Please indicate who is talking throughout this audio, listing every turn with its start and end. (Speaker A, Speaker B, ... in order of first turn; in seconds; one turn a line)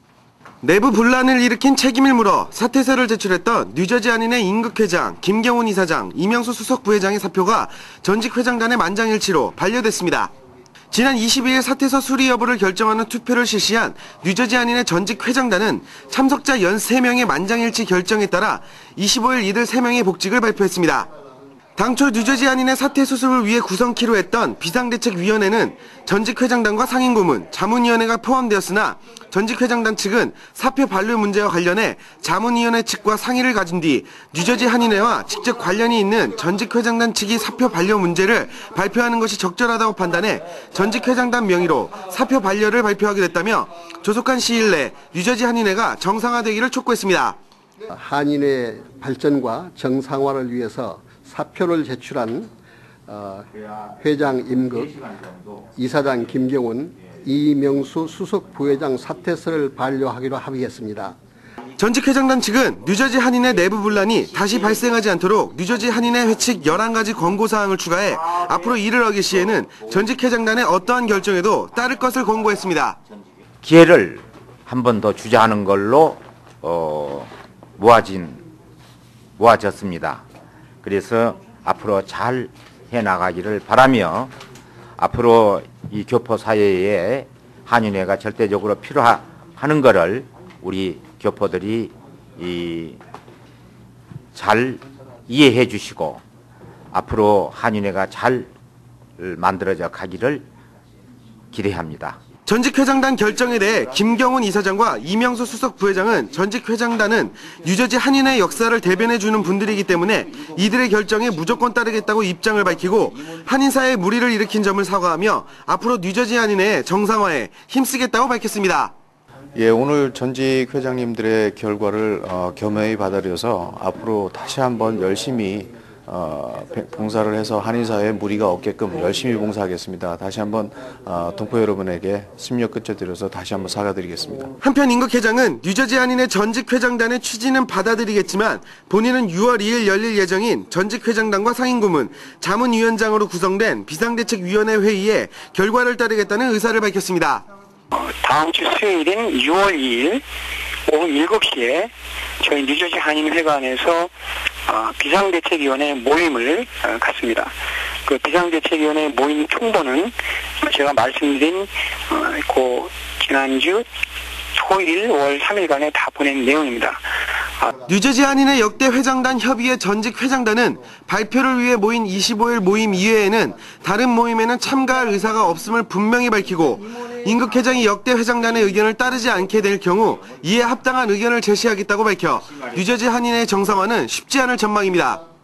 Speaker A: 0.6-10.3
Speaker A: 10.9-21.1
Speaker A: 21.8-47.4
Speaker B: 47.9-52.5
Speaker B: 53.1-55.1
Speaker B: 55.7-61.1
Speaker A: 61.8-73.0
Speaker C: 73.6-78.4
Speaker C: 79.4-80.2
Speaker C: 80.8-84.3
Speaker C: 85.0-93.0
Speaker C: 94.3-96.2
Speaker C: 96.9-98.5
Speaker C: 99.2-100.4
Speaker C: 101.5-102.2
Speaker A: 102.5-118.9
Speaker D: 119.5-134.5
Speaker A: 134.6-147.4
Speaker E: 147.9-150.2
Speaker E: 150.9-154.1
Speaker E: 154.7-157.5
Speaker E: 158.1-163.9
Speaker E: 164.6-167.0
Speaker A: 167.8-185.2